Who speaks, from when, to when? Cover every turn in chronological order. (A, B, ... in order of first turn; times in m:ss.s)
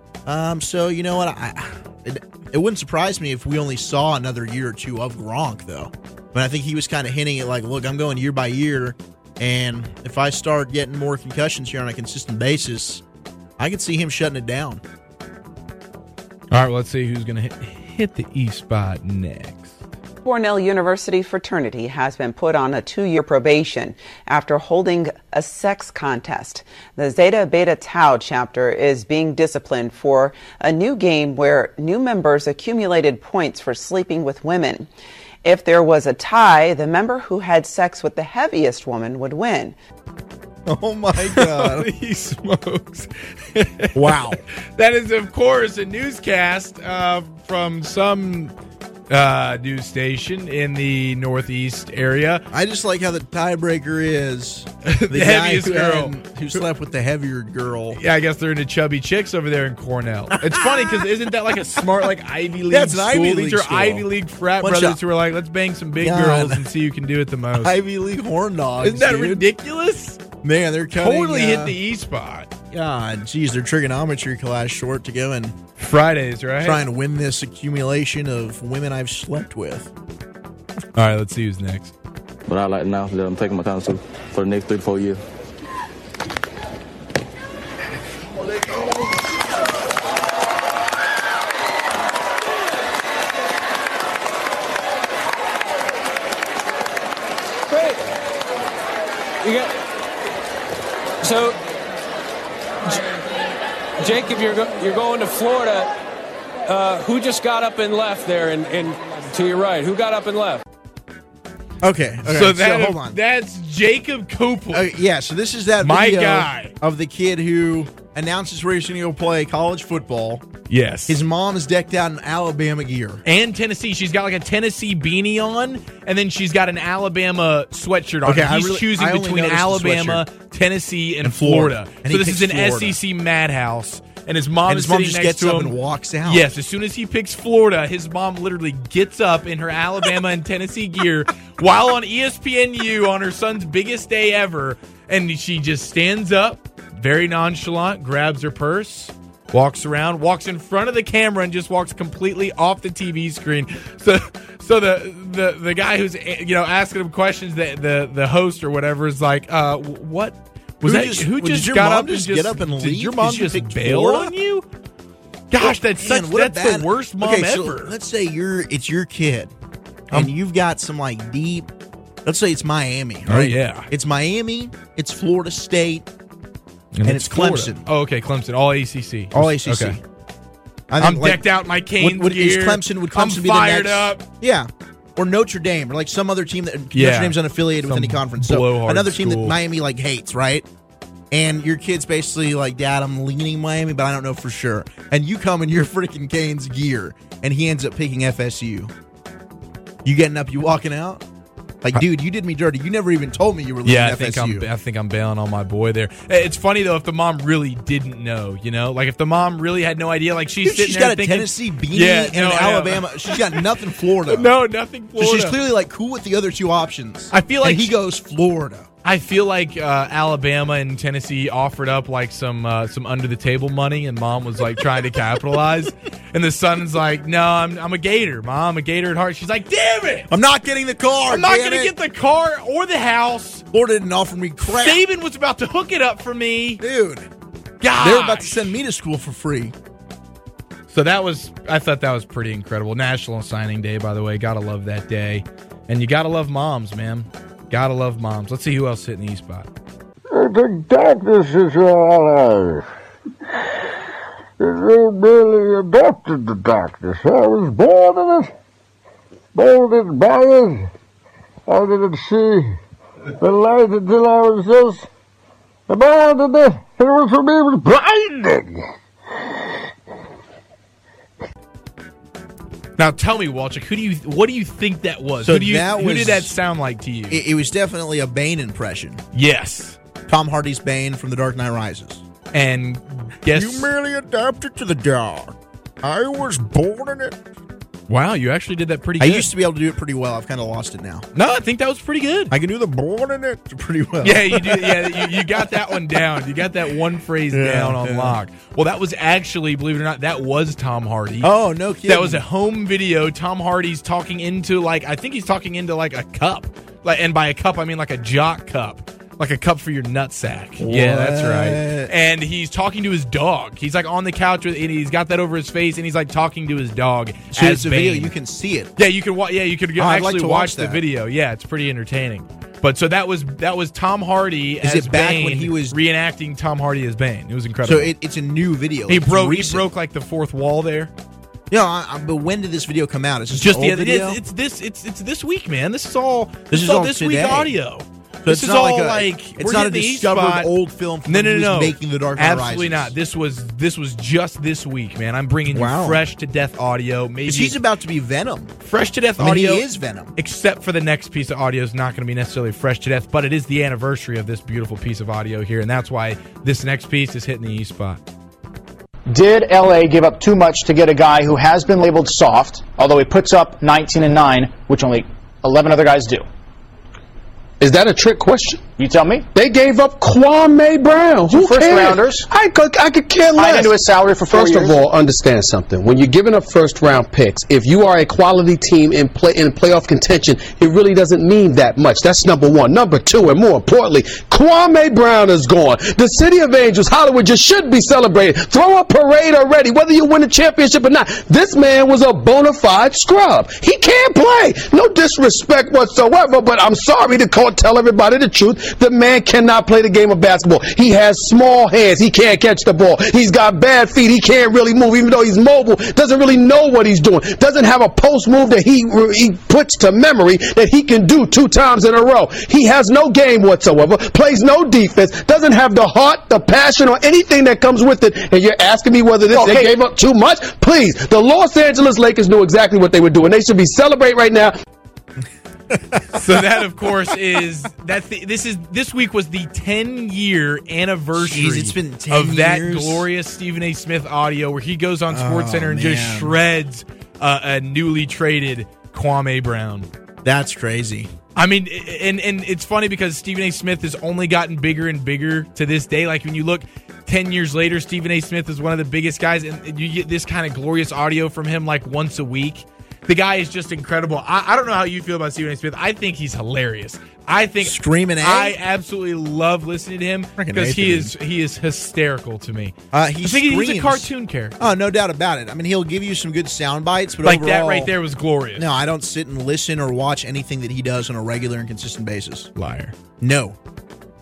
0:00.2-0:13.0 A
0:13.6-0:14.8 A
0:16.5-0:19.8 B
0:20.2-0:34.9 C
0:35.4-0:39.8 C
0:40.6-0:41.9 A
0:41.3-0:48.5 B
0:44.0-0:44.4 A
0:49.1-0:52.4 B
0:52.5-0:58.0 A
0:54.9-0:56.6 B
0:57.9-1:07.8 B
1:00.5-1:01.0 A
1:02.7-1:04.1 A
1:04.6-1:05.0 A
1:06.0-1:06.6 A
1:07.5-1:09.4 A
1:08.8-1:10.2 B
1:10.4-1:11.8 A
1:11.0-1:12.5 B
1:12.7-1:15.6 A
1:15.8-1:16.8 B
1:16.6-1:19.9 A
1:21.0-1:21.9 B
1:22.5-1:25.2 D
1:37.7-1:38.0 E
1:39.4-1:39.7 E
1:41.2-1:41.6 E
1:44.0-1:45.9 E
1:46.7-1:50.6 E
1:51.8-1:53.2 A
1:52.2-1:54.9 B
1:54.7-2:00.4 A
1:55.8-1:56.7 B
2:00.7-2:01.2 B
2:01.1-2:03.2 A
2:03.2-2:44.6 B
2:08.2-2:10.2 A
2:11.2-2:13.0 A
2:14.7-2:16.5 A
2:40.8-2:44.3 A
2:45.5-2:47.9 B
2:45.6-2:49.5 A
2:50.1-2:51.7 A
2:52.2-2:56.1 A
2:53.3-2:53.9 B
2:57.0-3:00.0 B
2:57.0-2:57.8 A
2:59.3-3:00.0 A
3:00.9-3:01.4 A
3:01.0-3:04.2 B
3:02.0-3:10.6 A
3:06.9-3:09.6 B
3:11.3-3:18.9 A
3:20.0-3:21.2 A
3:21.8-3:24.7 A
3:23.8-3:33.7 B
3:30.6-3:34.5 A
3:34.3-3:35.6 B
3:35.2-3:38.9 A
3:37.3-3:37.9 B
3:39.0-3:50.3 B
3:50.3-3:51.9 A
3:51.3-3:53.6 B
3:53.7-3:55.0 A
3:54.6-3:56.8 B
3:56.8-3:57.3 A
3:57.8-3:58.8 B
3:58.0-3:59.7 A
4:00.9-4:09.7 B
4:10.3-4:12.8 F
4:14.6-4:18.5 F
4:19.5-4:20.9 F
4:21.7-4:22.8 F
4:23.4-4:25.0 F
4:25.9-4:28.8 F
4:33.0-4:37.4 B
4:35.4-4:36.5 A
4:37.3-4:39.2 A
4:39.3-4:40.0 B
4:40.3-4:42.2 A
4:42.5-4:43.9 B
4:43.5-4:47.4 A
4:48.1-4:49.5 B
4:49.2-4:51.2 A
4:51.4-4:52.5 B
4:52.5-4:55.8 A
4:54.2-5:01.5 B
4:57.5-4:58.4 A
5:01.4-5:02.4 A
5:02.0-5:18.3 B
5:10.8-5:12.1 A
5:17.5-5:18.9 A
5:19.0-5:28.1 B
5:20.0-5:21.0 A
5:24.8-5:26.0 A
5:27.8-5:29.9 A
5:29.1-5:31.1 B
5:31.7-5:34.4 A
5:33.5-5:40.7 B
5:36.7-5:37.7 A
5:38.4-5:43.1 A
5:41.2-5:47.8 B
5:45.7-5:46.2 A
5:47.5-5:48.8 A
5:48.8-5:58.2 B
5:49.4-5:50.3 A
5:59.3-6:06.4 G
6:07.8-6:08.9 H
6:08.9-6:09.5 G
6:09.5-7:04.8 H
6:11.5-6:12.4 G
6:13.5-6:15.0 G
7:05.9-7:06.4 A
7:06.3-7:20.1 B
7:11.4-7:13.2 A
7:15.3-7:16.6 A
7:20.4-7:21.3 A
7:21.6-7:44.8 B
7:37.8-7:38.8 A
7:40.6-7:41.3 A
7:43.1-7:48.1 A
7:47.4-7:48.9 B
7:48.8-7:52.7 A
7:52.8-7:53.1 B
7:53.4-7:53.8 A